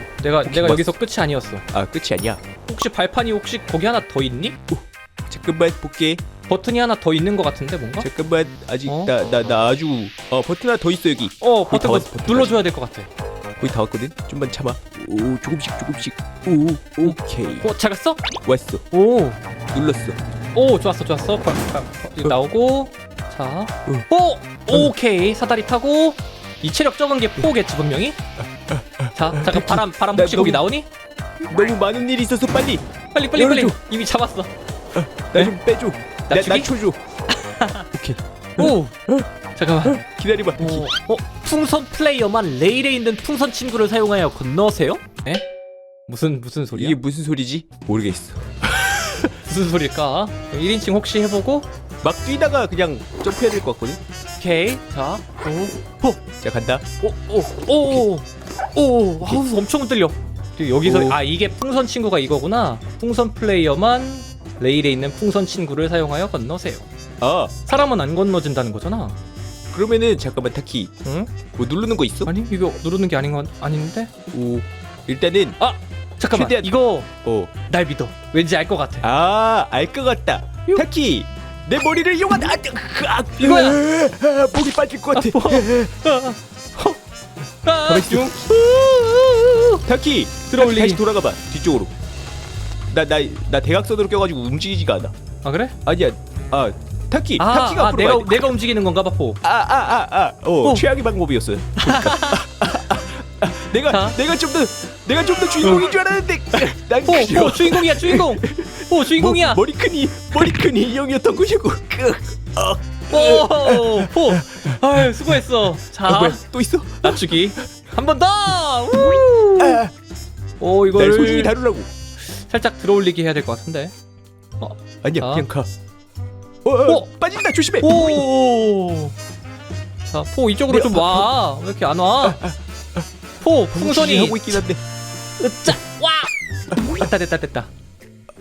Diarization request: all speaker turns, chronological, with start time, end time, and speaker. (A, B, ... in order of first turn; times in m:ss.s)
0:00.2-0:01.6 A
0:00.4-0:01.0 B
0:01.7-0:02.4 B
0:02.7-0:04.6 A
0:04.7-0:06.2 B
0:06.5-0:08.1 A
0:08.0-0:12.6 B
0:08.9-0:09.1 A
0:11.4-0:13.1 A
0:13.6-0:17.7 B
0:17.0-0:18.2 A
0:18.4-0:18.8 B
0:18.9-0:19.4 A
0:19.7-0:20.2 B
0:20.6-0:28.2 A
0:28.7-0:30.6 B
0:29.1-0:30.9 A
0:31.4-0:33.8 B
0:33.1-0:34.5 A
0:35.0-0:37.0 B
0:36.3-0:36.7 A
0:37.3-0:37.9 A
0:37.9-0:39.3 B
0:38.6-0:38.9 A
0:39.6-0:40.0 A
0:39.8-0:40.9 B
0:40.6-0:45.5 A
0:46.1-0:47.0 A
0:46.7-0:49.4 B
0:49.4-0:51.7 A
0:52.0-0:54.0 B
0:54.4-0:56.2 A
0:56.4-0:56.8 B
0:57.0-0:58.2 A
0:58.8-1:06.9 A
1:00.8-1:01.2 B
1:07.2-1:07.5 B
1:07.6-1:09.2 A
1:09.7-1:10.9 B
1:11.0-1:11.3 A
1:11.5-1:12.3 B
1:12.2-1:14.1 A
1:14.3-1:15.6 B
1:15.6-1:17.1 A
1:16.3-1:17.5 B
1:17.7-1:19.1 A
1:19.0-1:26.0 B
1:23.4-1:23.8 A
1:25.1-1:27.0 A
1:27.6-1:29.8 A
1:27.9-1:28.6 B
1:29.8-1:31.9 B
1:30.5-1:31.0 A
1:32.9-1:35.1 B
1:35.4-1:35.8 A
1:35.8-1:38.5 B
1:37.4-1:39.4 A
1:39.4-1:55.4 B
1:41.8-1:42.4 A
1:43.9-1:44.2 A
1:47.0-1:49.6 A
1:53.1-1:56.4 A
1:56.1-1:57.6 B
1:57.0-1:59.8 A
1:59.6-1:59.9 B
2:00.6-2:01.5 A
2:01.0-2:01.9 B
2:02.2-2:03.9 A
2:04.6-2:05.5 A
2:05.0-2:05.7 B
2:06.6-2:08.2 B
2:07.8-2:09.1 A
2:10.1-2:12.4 A
2:10.7-2:11.3 B
2:12.2-2:12.6 B
2:13.4-2:14.6 A
2:13.7-2:14.8 B
2:15.4-2:17.7 A